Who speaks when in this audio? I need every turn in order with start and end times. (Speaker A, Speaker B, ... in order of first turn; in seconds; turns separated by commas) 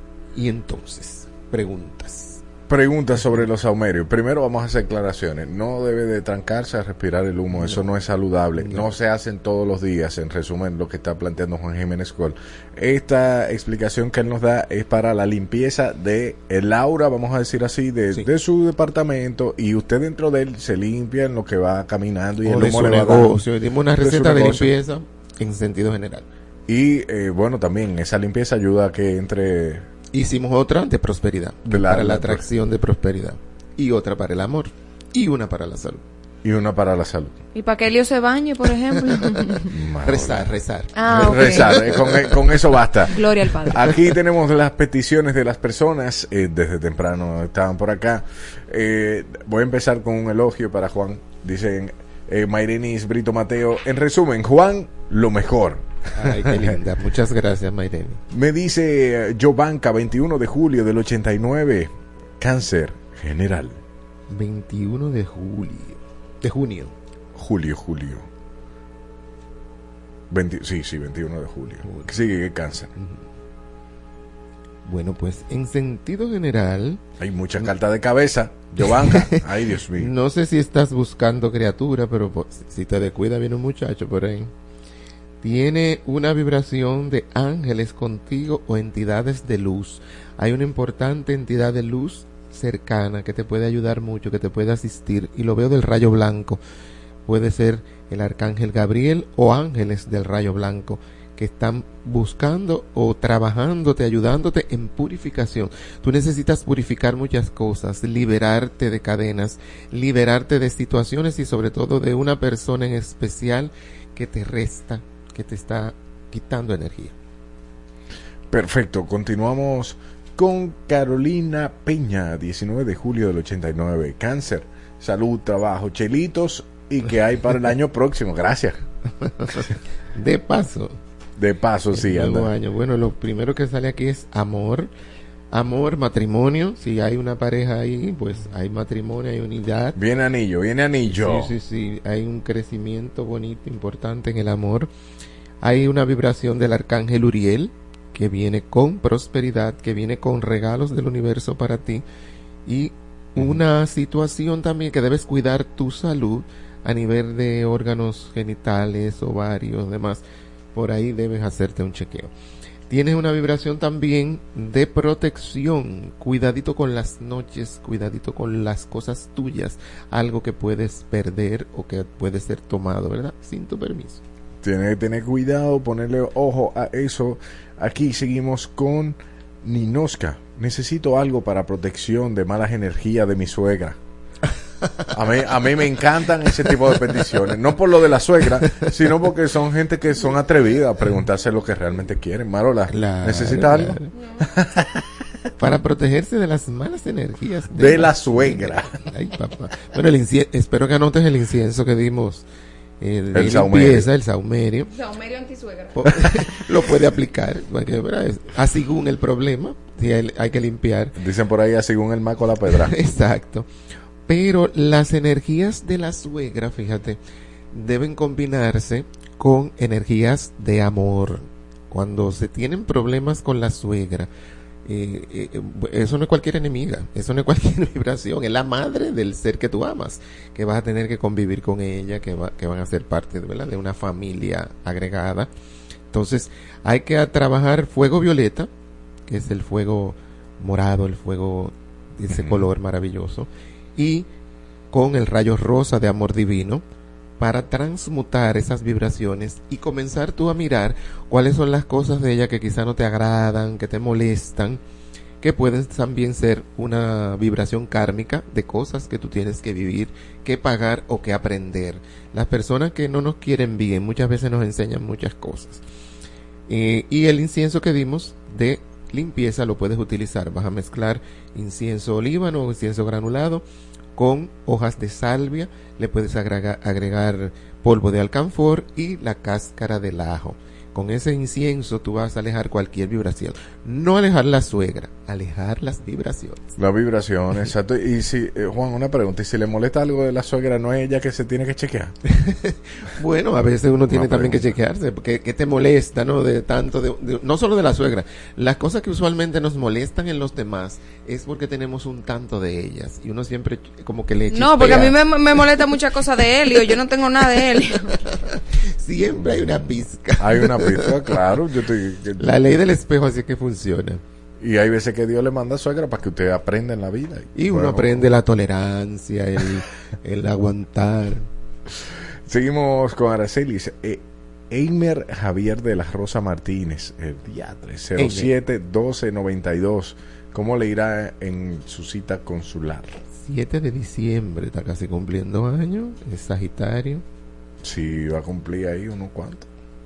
Speaker A: 0.3-2.4, Speaker B: 2.7-23.4, Speaker A: 7.5-7.9, Speaker A: 8.6-8.9, Speaker A: 22.4-26.3, Speaker B: 24.0-24.7, Speaker B: 26.7-29.9, Speaker A: 30.1-36.0, Speaker B: 31.7-32.4, Speaker B: 36.4-37.3, Speaker C: 37.5-39.7, Speaker B: 39.7-40.5, Speaker A: 40.0-42.7, Speaker C: 40.9-41.8, Speaker B: 41.1-43.1, Speaker C: 43.1-43.9, Speaker B: 43.7-56.8, Speaker A: 56.1-58.2, Speaker B: 58.3-63.8, Speaker A: 64.3-66.9, Speaker B: 67.3-68.3, Speaker B: 70.3-72.9, Speaker A: 73.0-73.2, Speaker A: 74.9-77.0, Speaker B: 77.2-80.1, Speaker A: 78.8-79.4, Speaker A: 79.9-84.5, Speaker A: 85.4-96.6, Speaker A: 97.3-117.1, Speaker B: 118.5-128.8, Speaker A: 129.4-130.9, Speaker B: 131.4-132.5, Speaker A: 131.9-134.9, Speaker A: 135.5-140.0, Speaker B: 140.0-141.5, Speaker A: 141.1-144.9, Speaker A: 145.6-152.0, Speaker A: 152.7-160.2, Speaker A: 160.7-162.3, Speaker A: 162.9-174.2, Speaker B: 174.6-184.0, Speaker B: 185.1-195.0, Speaker A: 186.5-187.3, Speaker A: 192.9-194.1, Speaker A: 195.6-202.4, Speaker B: 197.8-199.0, Speaker A: 203.0-204.9, Speaker B: 203.3-204.1, Speaker C: 204.9-205.9, Speaker A: 205.9-211.1, Speaker B: 211.2-212.9, Speaker A: 212.7-213.7, Speaker A: 214.3-217.2, Speaker A: 217.7-224.3, Speaker A: 224.9-235.5, Speaker A: 236.1-238.7, Speaker A: 239.3-244.3, Speaker B: 242.3-242.6, Speaker A: 244.9-246.8, Speaker A: 247.4-254.8, Speaker A: 255.4-265.8, Speaker A: 266.7-273.6, Speaker A: 274.1-286.7, Speaker B: 286.8-292.1, Speaker A: 292.3-305.2, Speaker B: 294.1-294.7, Speaker C: 304.5-308.1, Speaker A: 309.0-311.4, Speaker B: 309.4-309.9, Speaker B: 310.4-312.6, Speaker A: 312.4-314.2, Speaker B: 314.6-318.3, Speaker A: 317.6-321.4, Speaker B: 322.5-333.2, Speaker A: 328.1-328.6, Speaker A: 333.3-337.2, Speaker B: 337.8-339.7